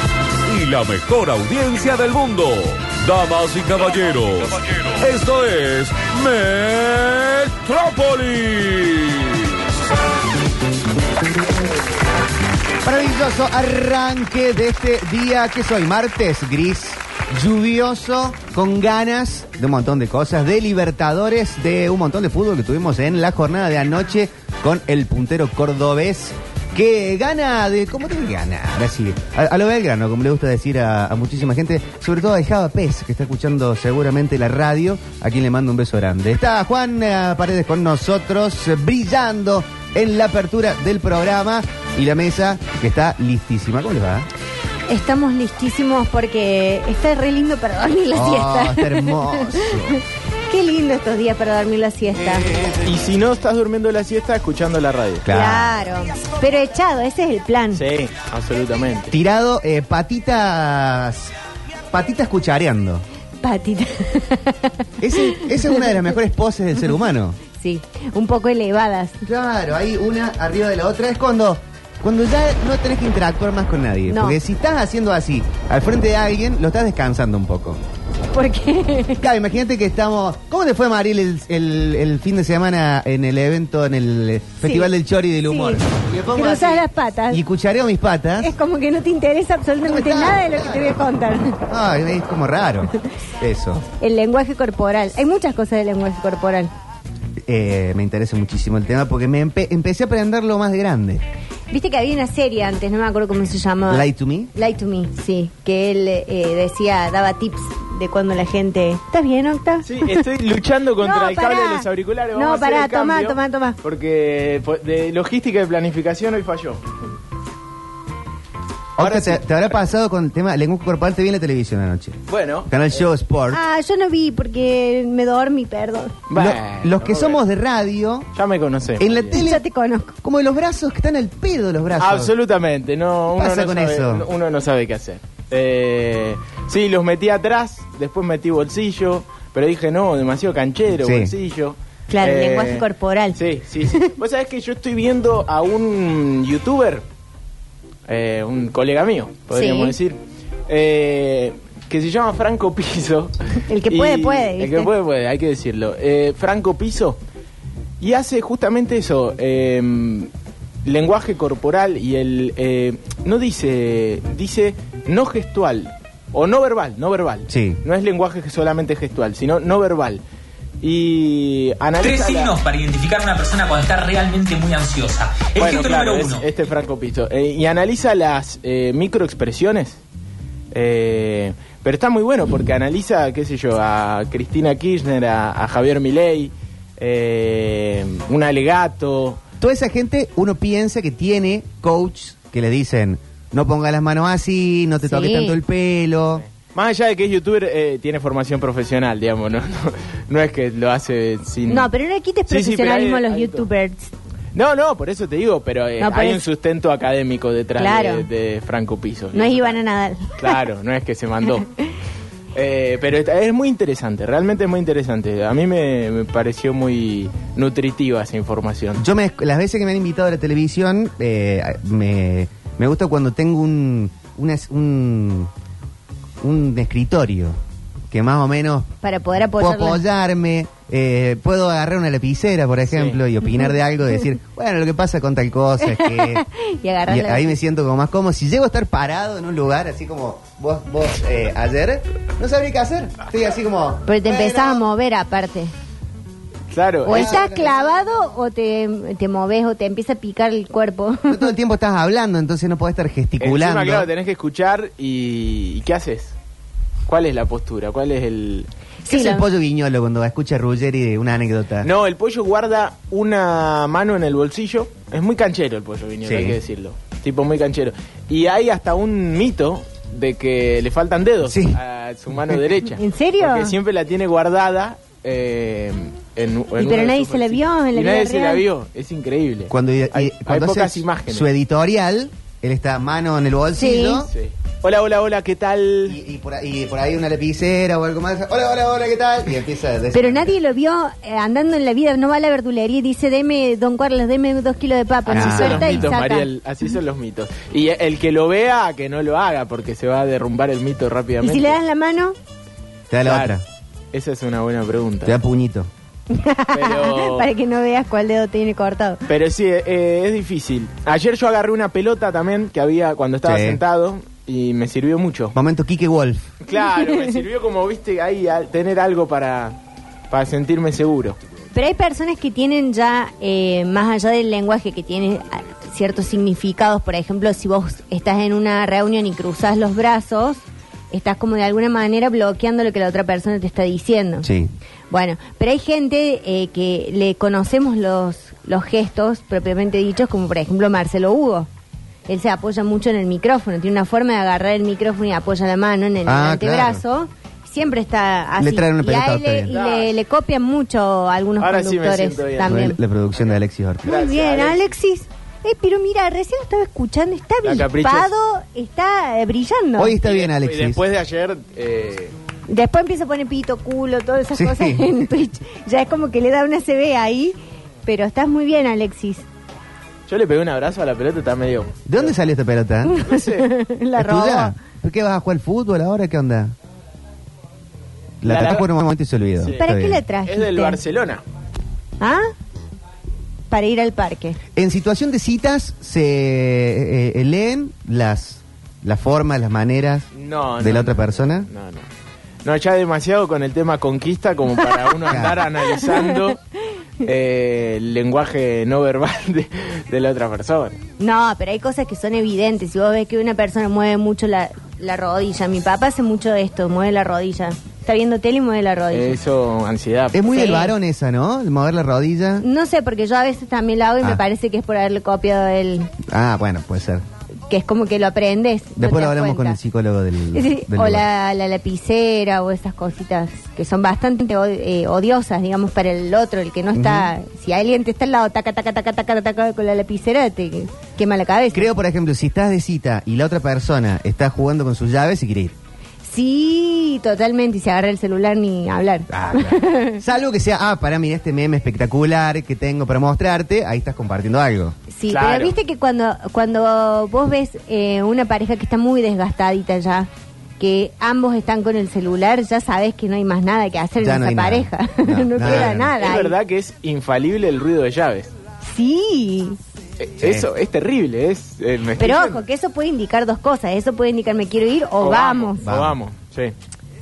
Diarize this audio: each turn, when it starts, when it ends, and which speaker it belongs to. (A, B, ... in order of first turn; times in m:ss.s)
0:00.4-0:09.5 A
0:12.8-0:44.3 B
0:44.9-0:52.5 C
0:48.1-0:50.0 B
0:52.8-0:55.3 D
0:55.2-0:55.8 B
0:55.3-0:57.8 C
0:57.7-0:59.1 D
0:59.1-1:01.3 B
1:01.9-1:03.0 B
1:03.4-1:05.8 C
1:05.0-1:07.4 B
1:07.6-1:09.2 C
1:09.2-1:17.8 B
1:14.1-1:14.4 C
1:18.3-1:19.2 C
1:19.2-1:28.5 B
1:24.6-1:24.9 C
1:25.5-1:25.8 C
1:26.3-1:27.4 C
1:28.4-1:31.6 C
1:29.8-1:31.0 B
1:31.7-1:33.8 B
1:34.0-1:36.7 C
1:37.4-1:41.2 B
1:41.7-1:50.2 C
1:43.9-1:44.5 B
1:49.8-1:56.8 D
1:51.0-1:53.8 C
1:59.0-2:03.6 B
1:59.0-1:59.6 D
2:02.3-2:03.0 D
2:03.5-2:06.2 C
2:06.3-2:07.4 D
2:06.3-2:08.3 B
2:08.3-2:09.4 D
2:09.0-2:09.6 B
2:09.3-2:10.1 C
2:10.2-2:12.3 B
2:12.0-2:27.0 D
2:13.3-2:14.3 B
2:21.0-2:21.3 B
2:22.1-2:24.1 C
2:28.1-2:37.2 D
2:29.5-2:30.0 C
2:33.7-2:34.9 C
2:38.0-2:40.3 D
2:40.8-2:50.2 D
2:47.5-2:47.8 B
2:50.8-2:52.5 D
2:52.0-2:56.4 E
2:55.6-3:00.0 D
3:00.7-3:09.4 D
3:09.6-3:16.4 B
3:15.0-3:15.6 C
3:16.5-3:21.9 D
3:21.7-3:24.1 C
3:22.5-3:23.7 D
3:24.5-3:29.8 D
3:26.0-3:26.4 C
3:27.8-3:28.2 C
3:29.3-3:30.5 C
3:30.4-3:31.7 D
3:32.5-3:39.0 D
3:39.0-3:45.5 B
3:46.4-3:47.6 B
3:48.1-3:48.9 B
3:49.0-3:50.0 C
3:49.6-3:56.4 B
3:52.9-3:53.2 D
3:55.8-3:57.6 C
3:57.1-4:04.8 B
4:04.1-4:05.7 C
4:06.7-4:07.4 D
4:07.0-4:11.5 C
4:07.0-4:07.9 B
4:11.3-4:14.1 B
4:13.4-4:16.4 D
4:17.1-4:18.7 D
4:19.0-4:19.5 C
4:19.1-4:21.9 B
4:21.8-4:41.5 D
4:26.2-4:26.6 B
4:31.4-4:31.8 B
4:32.9-4:33.7 C
4:36.8-4:38.6 C
4:39.7-4:44.3 B
4:43.8-4:44.2 C
4:44.3-4:46.2 D
4:46.1-4:50.6 B
4:50.1-4:56.5 C
4:55.3-4:56.1 B
4:55.3-5:01.8 D
5:01.4-5:02.4 C
5:03.1-5:03.6 B
5:03.2-5:03.6 D
5:04.1-5:05.4 D
5:05.2-5:05.9 B
5:06.3-5:09.2 C
5:06.7-5:07.5 D
5:09.3-5:15.6 D
5:13.4-5:13.8 B
5:15.6-5:16.5 B
5:16.6-5:19.8 D
5:17.0-5:17.4 C
5:20.3-5:21.4 D
5:21.7-5:34.5 C
5:34.4-5:34.7 B
5:35.1-5:41.7 C
5:42.3-5:53.0 C
5:46.2-5:47.0 B
5:48.6-5:49.7 B
5:49.7-5:50.2 D
5:51.6-5:52.9 D
5:52.6-5:54.2 B
5:54.0-5:54.8 D
5:54.1-6:00.2 C
5:57.6-5:58.3 D
6:00.0-6:01.0 B
6:00.2-6:02.4 D
6:02.7-6:09.5 C
6:04.5-6:05.1 B
6:10.3-6:12.4 D
6:12.1-6:13.2 B
6:13.1-6:14.8 C
6:13.2-6:13.7 D
6:14.2-6:16.8 B
6:18.4-6:20.2 B
6:18.4-6:18.9 D
6:19.7-6:21.0 C
6:20.4-6:21.4 D
6:22.2-6:22.5 C
6:23.7-6:24.6 C
6:24.8-6:30.3 B
6:30.4-6:32.0 D
6:30.8-6:31.7 B
6:32.6-6:36.6 D
6:35.3-6:35.6 B
6:35.9-6:36.4 C
6:37.2-6:41.0 D
6:41.2-6:49.4 C
6:49.1-6:50.7 D
6:50.3-6:52.6 B
6:50.5-6:50.9 C
6:52.6-6:56.1 C
6:56.2-6:57.2 B
6:57.7-6:59.8 C
6:59.0-7:01.2 B
7:00.5-7:11.9 C
7:06.9-7:07.3 B
7:11.7-7:15.8 B
7:16.2-7:20.2 C
7:19.3-7:25.0 B
7:25.1-7:30.3 C
7:25.3-7:25.8 D
7:30.8-7:36.6 C
7:34.2-7:36.2 B
7:35.6-7:38.5 D
7:38.8-7:39.8 C
7:40.2-7:42.6 D
7:40.4-7:40.7 B
7:42.2-7:45.9 C
7:45.2-7:46.7 D
7:45.8-7:46.2 B